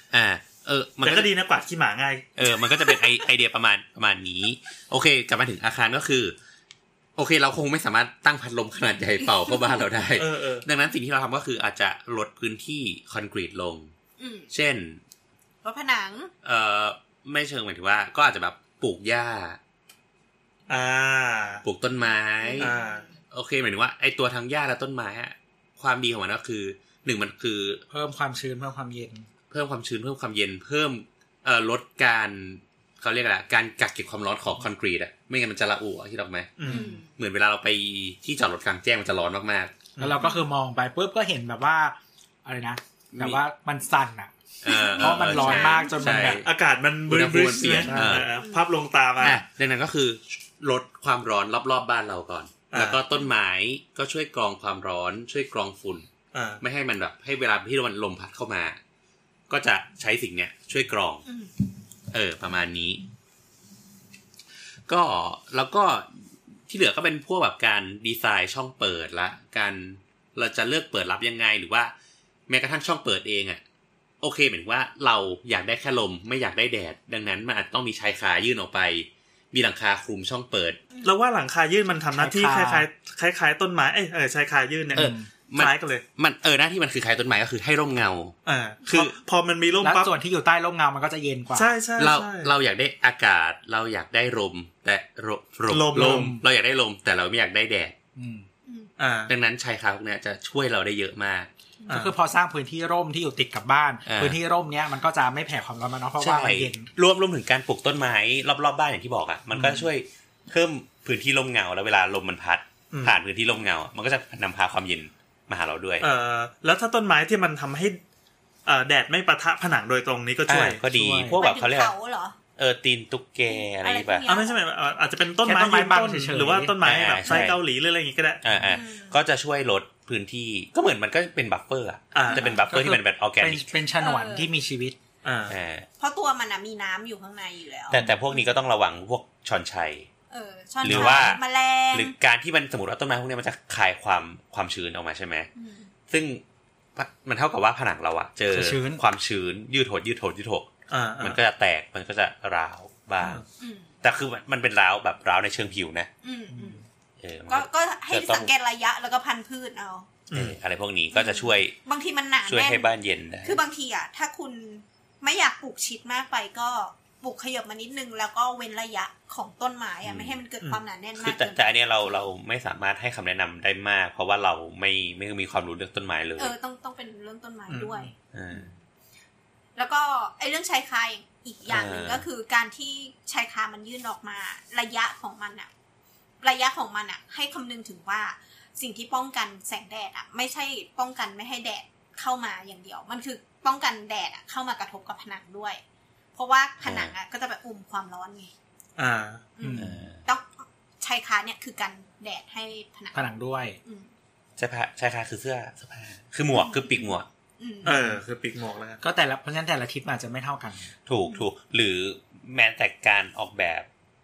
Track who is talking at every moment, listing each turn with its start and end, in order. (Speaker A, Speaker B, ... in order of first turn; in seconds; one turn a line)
Speaker A: 0.1-1.3
Speaker B: 1.0-2.3
Speaker A: 2.4-6.3
Speaker A: 7.2-13.9
Speaker B: 10.2-10.7
Speaker C: 14.2-14.5
Speaker A: 14.5-15.0
Speaker C: 15.6-16.3
Speaker A: 16.4-19.6
Speaker B: 20.7-21.6
Speaker A: 21.6-22.7
Speaker C: 22.4-23.1
Speaker B: 22.6-23.0
Speaker A: 23.3-27.8
Speaker D: 27.9-29.3
Speaker A: 29.5-36.6
Speaker B: 36.6-36.9
Speaker C: 36.7-37.1
Speaker D: 36.7-36.9
Speaker A: 37.2-39.9
Speaker B: 40.0-40.2
Speaker D: 40.0-44.3
Speaker C: 40.2-40.5
Speaker A: 43.1-43.4
Speaker A: 44.6-46.5
Speaker C: 44.7-46.2
Speaker D: 45.0-46.4
Speaker B: 46.4-49.4
Speaker A: 47.1-48.3
Speaker D: 47.7-48.3
Speaker C: 48.4-48.6
Speaker A: 49.2-56.1
Speaker B: 52.7-53.0
Speaker B: 56.3-56.6
Speaker A: 56.6-58.8
Speaker A: 59.5-61.2
Speaker C: 61.2-61.5
Speaker A: 62.1-63.0
Speaker A: 64.9-71.9
Speaker A: 72.5-73.6
Speaker A: 74.2-80.8
Speaker B: 81.0-86.0
Speaker D: 82.1-82.9
Speaker A: 85.0-88.3
Speaker D: 85.0-85.3
Speaker B: 88.5-90.1
Speaker D: 89.8-91.7
Speaker B: 91.5-92.5
Speaker A: 92.0-98.0
Speaker B: 95.7-96.4
Speaker D: 95.9-96.4
Speaker D: 98.2-98.5
Speaker B: 99.0-99.3
Speaker A: 99.3-101.5
Speaker B: 101.9-102.1
Speaker D: 101.9-106.9
Speaker A: 104.1-104.4
Speaker A: 106.2-116.1
Speaker D: 109.5-109.9
Speaker B: 112.9-113.2
Speaker B: 116.0-118.0
Speaker B: 118.7-120.8
Speaker A: 120.5-122.0
Speaker D: 120.9-121.4
Speaker C: 121.3-122.4
Speaker A: 122.6-124.3
Speaker C: 123.5-124.6
Speaker B: 124.3-128.4
Speaker D: 125.5-126.8
Speaker A: 126.8-127.6
Speaker A: 128.4-133.7
Speaker C: 128.7-129.2
Speaker B: 132.1-132.5
Speaker D: 132.4-135.0
Speaker C: 134.0-134.5
Speaker B: 135.2-135.6
Speaker A: 135.5-135.9
Speaker C: 136.0-138.6
Speaker A: 137.9-140.1
Speaker C: 140.3-142.2
Speaker A: 140.8-145.5
Speaker D: 140.9-141.4
Speaker C: 145.6-145.9
Speaker A: 146.1-146.4
Speaker A: 147.0-153.4
Speaker D: 148.5-149.0
Speaker B: 150.9-151.4
Speaker C: 153.6-153.9
Speaker A: 154.0-156.1
Speaker C: 156.2-156.8
Speaker D: 156.5-156.8
Speaker A: 157.2-158.5
Speaker C: 157.5-160.2
Speaker B: 160.3-160.6
Speaker A: 160.3-161.8
Speaker C: 161.1-162.9
Speaker A: 162.5-163.6
Speaker C: 163.4-171.8
Speaker A: 170.0-170.4
Speaker A: 171.2-176.6
Speaker C: 176.4-178.7
Speaker B: 177.7-178.1
Speaker A: 178.3-178.7
Speaker C: 179.8-185.7
Speaker A: 181.7-182.3
Speaker C: 186.4-195.8
Speaker C: 196.3-198.5
Speaker A: 196.8-197.1
Speaker B: 199.0-199.5
Speaker C: 199.6-203.3
Speaker D: 199.6-200.0
Speaker A: 199.8-200.3
Speaker D: 203.1-203.8
Speaker A: 204.6-207.3
Speaker C: 206.5-207.9
Speaker D: 207.8-208.2
Speaker B: 207.8-209.0
Speaker D: 209.0-210.9
Speaker A: 211.1-213.9